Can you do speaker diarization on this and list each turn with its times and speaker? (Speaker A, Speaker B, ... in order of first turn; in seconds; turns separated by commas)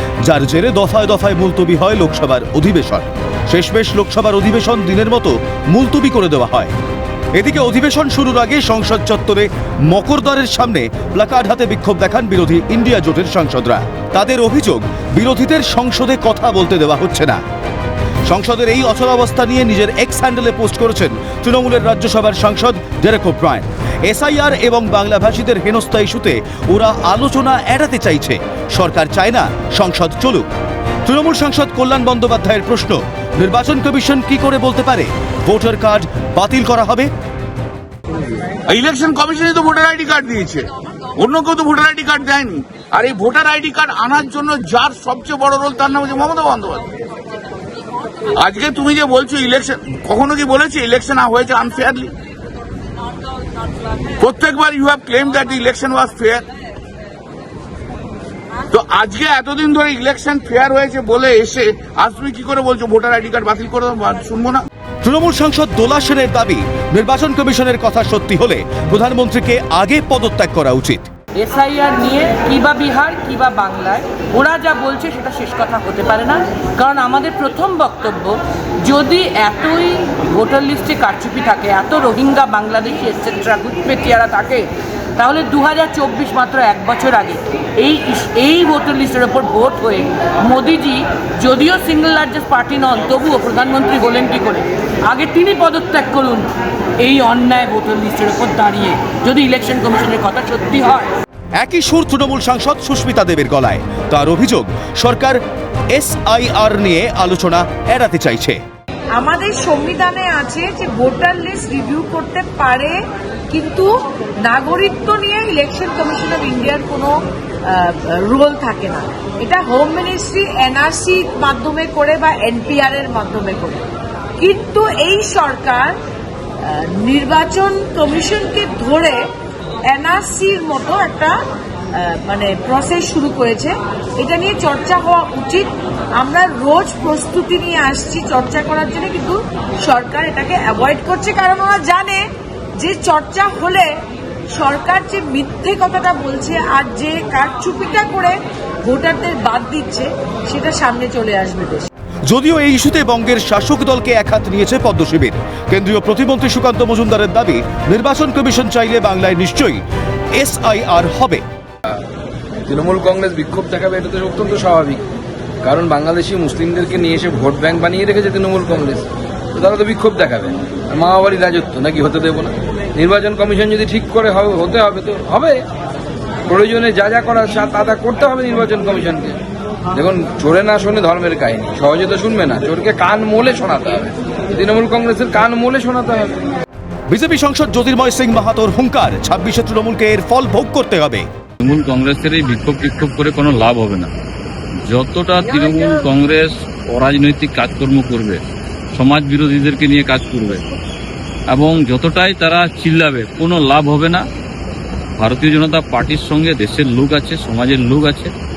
Speaker A: 0.2-6.7, Speaker A: 7.3-17.4, Speaker A: 18.3-30.4, Speaker A: 31.0-37.1, Speaker B: 38.7-46.9, Speaker B: 48.4-52.1, Speaker B: 54.2-56.5, Speaker B: 58.7-64.6, Speaker A: 65.0-71.0, Speaker C: 71.3-96.5, Speaker C: 97.0-101.1, Speaker A: 101.6-105.4, Speaker A: 105.9-108.6, Speaker D: 109.2-112.9, Speaker D: 113.5-113.9, Speaker D: 114.5-117.1, Speaker D: 117.7-123.8, Speaker D: 124.4-125.9, Speaker D: 126.7-129.2, Speaker D: 129.9-131.4, Speaker D: 132.1-142.2, Speaker D: 142.8-143.9, Speaker D: 144.6-148.3, Speaker D: 148.8-151.9, Speaker A: 152.3-159.8, Speaker A: 160.4-161.4, Speaker E: 162.7-165.0, Speaker E: 165.6-175.7, Speaker E: 176.5-179.4, Speaker E: 179.9-186.4, Speaker A: 187.1-191.2, Speaker F: 191.6-194.1, Speaker F: 194.8-198.4, Speaker F: 198.9-200.7, Speaker F: 201.5-204.2, Speaker F: 205.2-208.3